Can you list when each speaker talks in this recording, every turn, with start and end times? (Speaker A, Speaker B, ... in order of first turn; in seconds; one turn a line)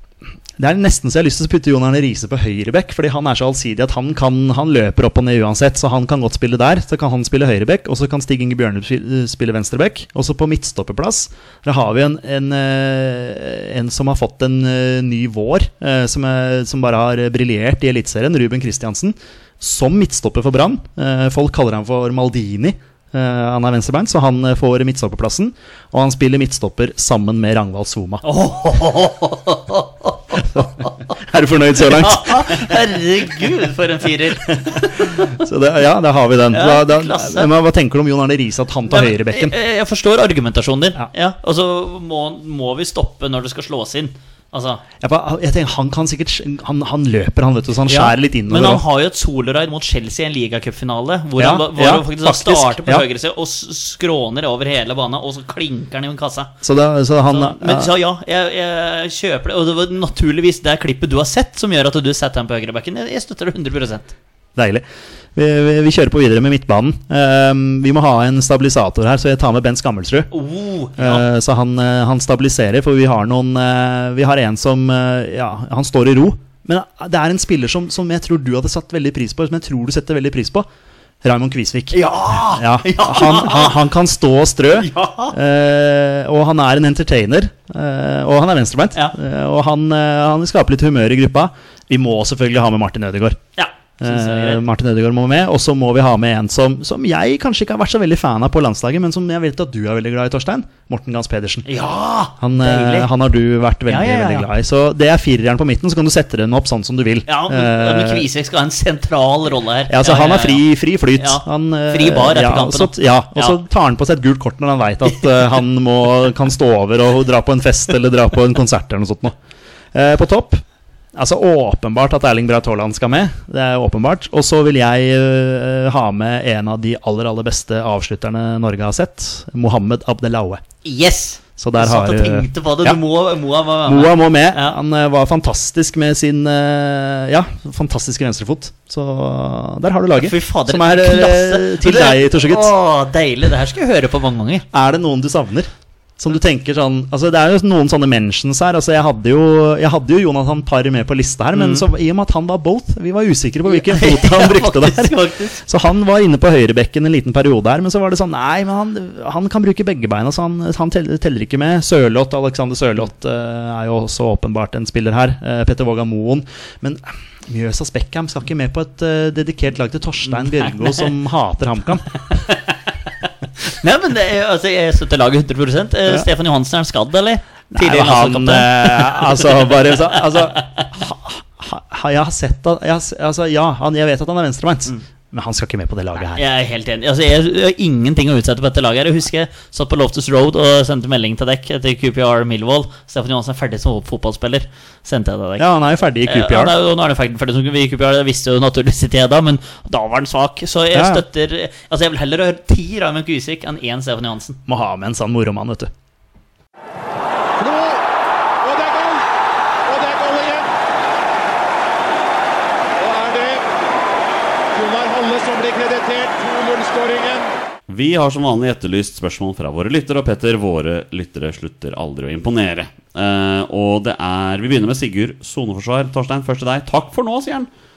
Speaker A: 0.6-28.2
Speaker B: 28.2-30.9
Speaker A: 30.5-32.8
Speaker B: 31.8-35.3
Speaker A: 34.7-39.5
Speaker B: 36.5-37.5
Speaker B: 38.9-44.8
Speaker A: 45.0-48.8
Speaker B: 47.9-56.5
Speaker A: 51.4-53.0
Speaker A: 56.6-57.9
Speaker B: 57.3-64.1
Speaker A: 64.5-70.3
Speaker B: 70.3-71.2
Speaker A: 71.0-80.7
Speaker A: 81.2-93.4
Speaker B: 81.9-83.8
Speaker B: 84.8-85.3
Speaker B: 93.6-94.6
Speaker A: 94.0-101.7
Speaker B: 101.7-103.1
Speaker A: 102.4-108.3
Speaker B: 103.9-104.5
Speaker B: 107.3-113.6
Speaker A: 109.9-119.3
Speaker A: 119.9-120.6
Speaker A: 121.1-130.6
Speaker B: 130.8-134.8
Speaker A: 131.6-133.0
Speaker A: 133.8-142.7
Speaker B: 140.2-144.7
Speaker A: 144.7-172.2
Speaker B: 151.5-151.8
Speaker B: 153.7-155.6
Speaker B: 173.7-179.9
Speaker A: 177.7-186.4
Speaker B: 180.5-180.8
Speaker B: 186.3-195.7
Speaker A: 195.6-196.8
Speaker B: 196.2-204.6
Speaker A: 200.9-201.2
Speaker A: 204.7-205.9
Speaker C: 207.6-208.0
Speaker C: 208.6-209.2
Speaker C: 209.8-210.7
Speaker C: 213.0-213.7
Speaker C: 214.7-217.5
Speaker D: 217.9-227.7